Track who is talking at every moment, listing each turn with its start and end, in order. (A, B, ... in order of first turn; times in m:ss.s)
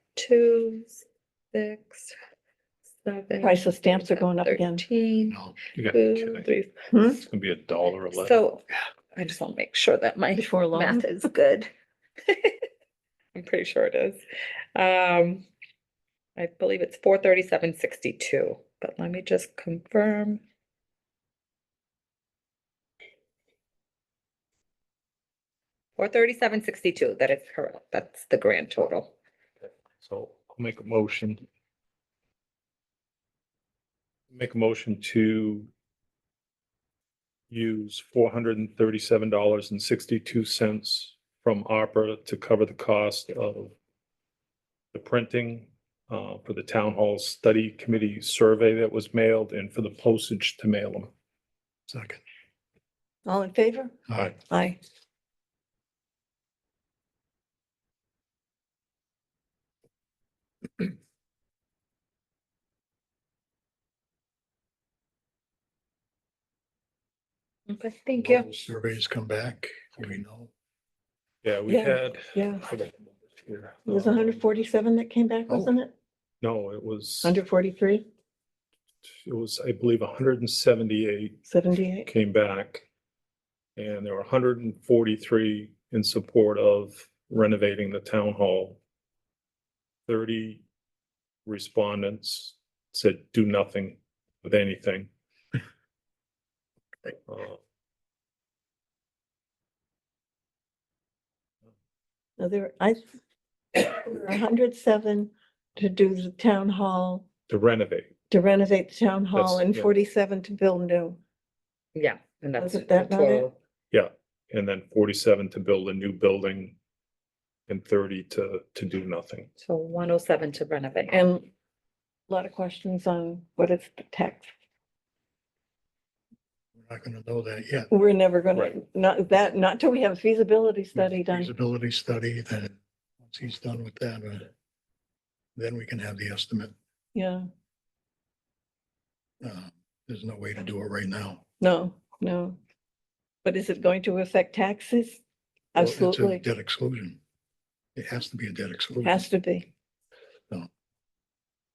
0:00.2-0:02.1 A
0:03.0-0:05.4 A
0:03.4-0:04.8 B
0:05.3-0:05.6 C
0:05.7-0:06.5 D
0:05.9-0:06.7 A
0:06.9-0:07.2 B
0:07.0-0:08.4 D
0:08.1-0:11.7 A
0:10.3-0:11.2 B
0:12.2-0:12.6 A
0:13.3-0:14.2 A
0:14.7-0:15.4 A
0:16.4-0:20.4 A
0:26.0-0:29.1 A
0:30.0-0:31.4 D
0:34.3-0:35.7 D
0:37.5-0:43.7 D
0:44.9-0:51.1 D
0:51.9-0:52.2 C
0:53.2-0:54.8 B
1:07.7-1:08.4 A
1:08.2-1:10.5 C
1:11.4-1:14.4 D
1:11.7-1:12.6 B
1:13.8-1:15.9 B
1:16.4-1:17.4 D
1:17.2-1:18.0 B
1:19.2-1:21.4 D
1:21.5-1:22.1 B
1:22.0-1:22.9 D
1:23.8-1:28.8 D
1:30.1-1:30.6 D
1:31.4-1:35.1 D
1:37.2-1:37.6 D
1:42.4-1:43.2 B
1:43.7-1:47.2 B
1:47.5-1:48.1 D
1:48.3-1:51.2 B
1:49.3-1:49.9 D
1:51.9-1:53.5 A
1:52.6-1:53.5 B
1:53.9-1:56.8 D
1:57.7-1:59.5 D
1:59.6-2:01.2 A
2:01.1-2:01.5 B
2:02.3-2:04.5 B
2:06.8-2:07.9 C
2:07.9-2:11.5 B
2:11.0-2:14.5 C
2:15.6-2:16.7 C
2:17.1-2:17.5 B
2:19.4-2:21.4 C
2:21.6-2:22.6 B
2:23.4-2:25.2 B
2:25.7-2:26.4 B
2:25.8-2:27.2 C
2:28.0-2:29.2 C
2:29.0-2:29.7 B